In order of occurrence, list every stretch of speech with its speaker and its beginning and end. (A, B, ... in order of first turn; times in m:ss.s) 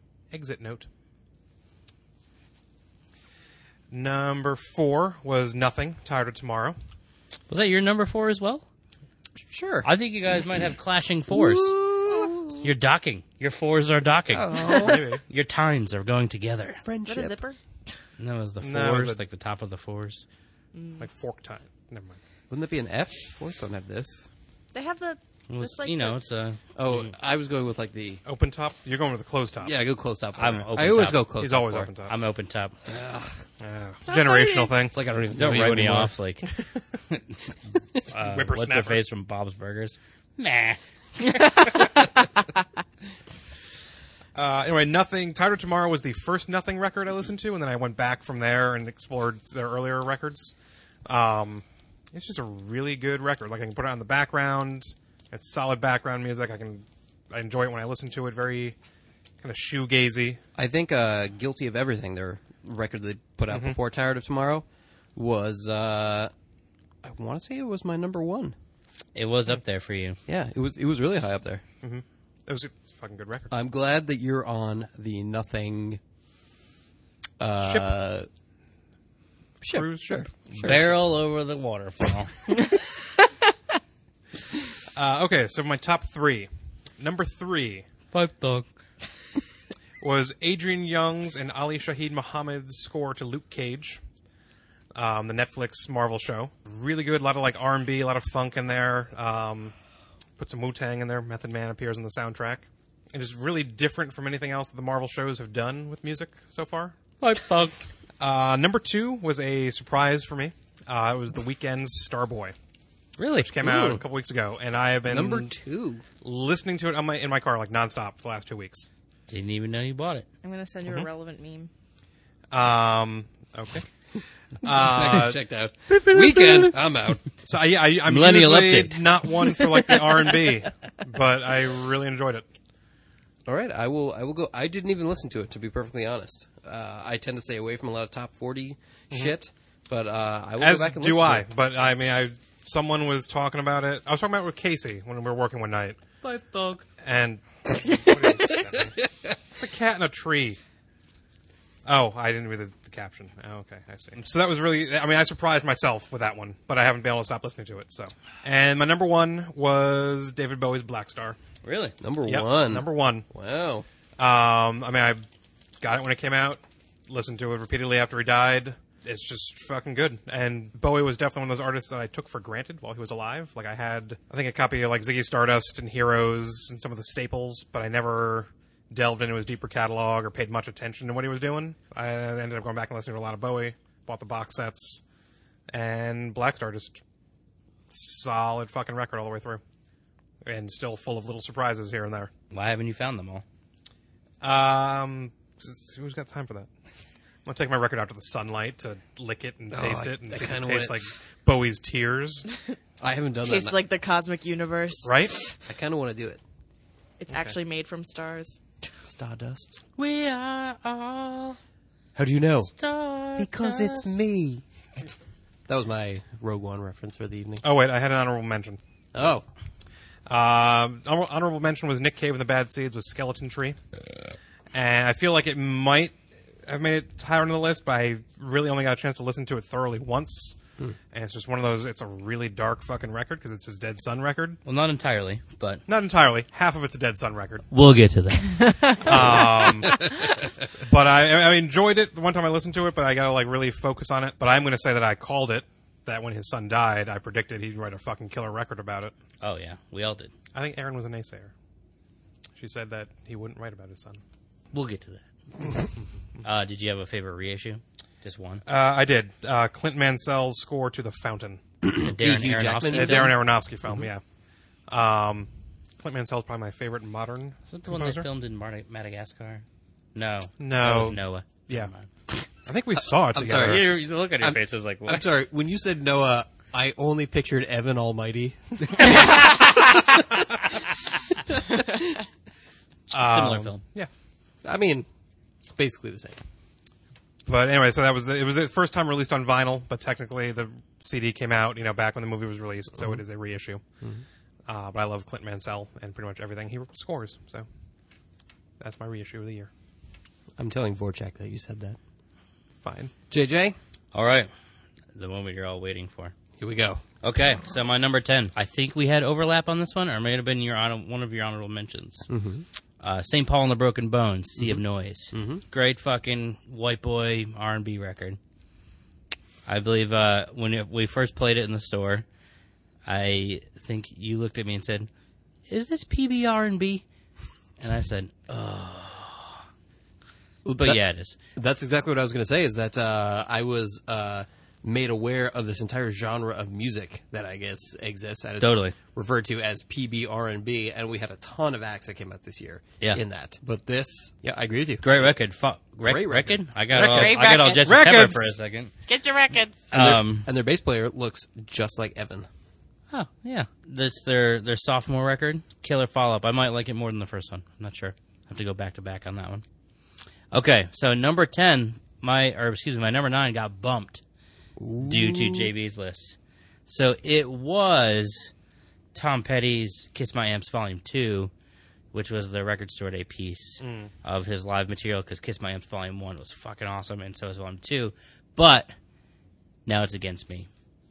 0:00.3-0:00.9 A
0:03.9-0:06.8 A
0:07.5-0:08.6 B
0:09.4-0:09.9 C
0:09.8-0:11.7 B
0:11.3-0:12.6 C
0:12.6-0:16.8 B
0:14.3-0:15.1 C
0:14.8-0:15.2 A
0:16.8-0:17.4 C
0:17.0-0:17.6 D
0:18.2-0:20.2 B
0:18.6-0:19.2 A
0:20.7-0:21.0 D
0:21.0-0:22.2 A
0:22.5-0:24.3 C
0:24.7-0:26.2 D
0:25.5-0:26.6 B
0:26.8-0:28.2 C
0:28.2-0:29.7 A
0:29.6-0:31.9 C
0:30.4-0:31.4 B
0:31.4-0:32.1 A
0:32.0-0:32.8 B
0:32.8-0:33.4 C
0:33.6-0:35.0 A
0:34.0-0:34.8 D
0:34.9-0:36.1 C
0:35.3-0:36.5 B
0:37.1-0:37.4 B
0:38.1-0:40.8 B
0:38.1-0:39.0 A
0:41.2-0:42.4 D
0:44.3-0:50.5 A
0:51.0-0:58.8 A
0:59.4-1:00.4 A
1:00.5-1:04.6 C
1:03.5-1:03.8 A
1:05.2-1:06.3 C
1:07.0-1:08.5 C
1:09.1-1:10.2 B
1:10.3-1:11.6 C
1:11.8-1:13.5 A
1:13.5-1:16.0 C
1:17.4-1:18.3 C
1:17.6-1:17.9 A
1:19.6-1:20.9 C
1:19.7-1:20.7 A
1:20.5-1:22.4 B
1:24.9-1:27.8 A
1:28.1-1:28.7 B
1:30.0-1:34.0 A
1:34.9-1:39.7 A
1:40.4-1:47.0 A
1:47.2-1:47.8 B
1:48.2-1:52.5 A
1:53.2-1:53.5 B
1:53.4-1:55.5 A
1:53.6-1:54.0 C
1:55.0-1:56.0 C
1:56.2-1:58.9 A
1:59.3-2:00.2 B
2:00.4-2:01.7 D
2:02.5-2:03.9 A
2:04.6-2:05.4 A
2:04.7-2:07.2 C
2:05.9-2:06.7 B
2:07.4-2:12.4 A
2:08.0-2:09.6 B
2:13.5-2:21.5 C
2:20.6-2:26.0 A
2:26.2-2:26.8 B
2:27.0-2:29.0 A
2:29.5-2:30.6 A
2:31.8-2:41.4 A
2:41.6-2:42.0 B
2:42.0-2:43.8 C
2:42.2-2:43.2 A
2:44.2-2:45.2 A
2:45.8-3:05.0 A
3:05.7-3:07.0 A
3:07.9-3:09.6 A
3:10.4-3:12.3 A
3:12.5-3:13.4 B
3:14.4-3:16.7 A
3:17.4-3:22.5 A
3:19.7-3:21.0 C
3:23.0-3:23.8 C
3:23.4-3:25.6 D
3:25.0-3:25.3 A
3:25.6-3:26.4 C
3:27.2-3:28.6 D
3:27.3-3:27.5 A
3:29.1-3:29.8 C
3:30.0-3:31.6 B
3:32.1-3:32.7 C
3:32.8-3:34.1 B
3:33.4-3:34.6 C
3:35.7-3:37.6 C
3:37.6-3:38.8 A
3:39.1-3:39.4 C
3:40.3-3:43.8 A
3:44.7-3:50.6 A
3:51.1-3:54.6 A
3:54.6-3:55.8 B
3:55.9-3:57.6 A
3:57.7-3:59.4 B
3:58.6-3:59.1 D
3:59.0-4:00.1 A
4:00.8-4:09.1 A
4:09.4-4:10.3 B
4:10.5-4:11.5 A
4:12.6-4:14.2 A
4:14.7-4:15.2 B
4:16.4-4:18.6 B
4:18.6-4:21.6 A
4:21.8-4:24.1 C
4:22.0-4:23.4 B
4:22.9-4:24.2 A
4:24.9-4:25.5 A
4:26.0-4:28.3 A
4:27.7-4:32.1 B
4:30.6-4:31.9 A
4:32.6-4:33.9 A
4:33.3-4:40.2 C
4:33.5-4:35.3 B
4:43.1-4:44.1 A
4:43.2-4:43.8 B
4:44.6-4:45.1 C
4:45.7-4:46.4 C
4:47.4-4:53.8 A
4:54.7-4:57.6 A
4:58.8-4:59.7 A
5:00.6-5:02.0 C
5:02.8-5:03.1 A
5:03.3-5:03.8 C
5:04.1-5:04.5 B
5:05.1-5:06.3 B
5:06.6-5:07.0 C
5:07.2-5:12.3 B
5:12.3-5:12.6 C
5:13.0-5:18.4 B
5:14.6-5:15.6 C
5:19.6-5:22.2 B
5:23.0-5:25.1 B
5:25.7-5:27.0 B
5:27.8-5:29.6 B
5:30.6-5:31.0 C
5:30.7-5:31.4 B
5:31.5-5:45.3 C
5:38.6-5:39.0 B
5:45.0-5:48.9 B
5:46.0-5:46.6 C
5:46.9-5:48.5 A
5:47.1-5:47.9 D
5:49.0-5:49.8 D
5:49.9-5:50.5 B
5:49.9-5:52.5 C
5:53.1-5:59.6 B
6:00.5-6:04.2 B
6:04.8-6:05.7 C
6:05.0-6:06.4 B
6:06.9-6:08.5 B
6:09.1-6:11.5 B
6:12.1-6:18.9 B
6:13.8-6:14.1 A
6:19.8-6:20.7 B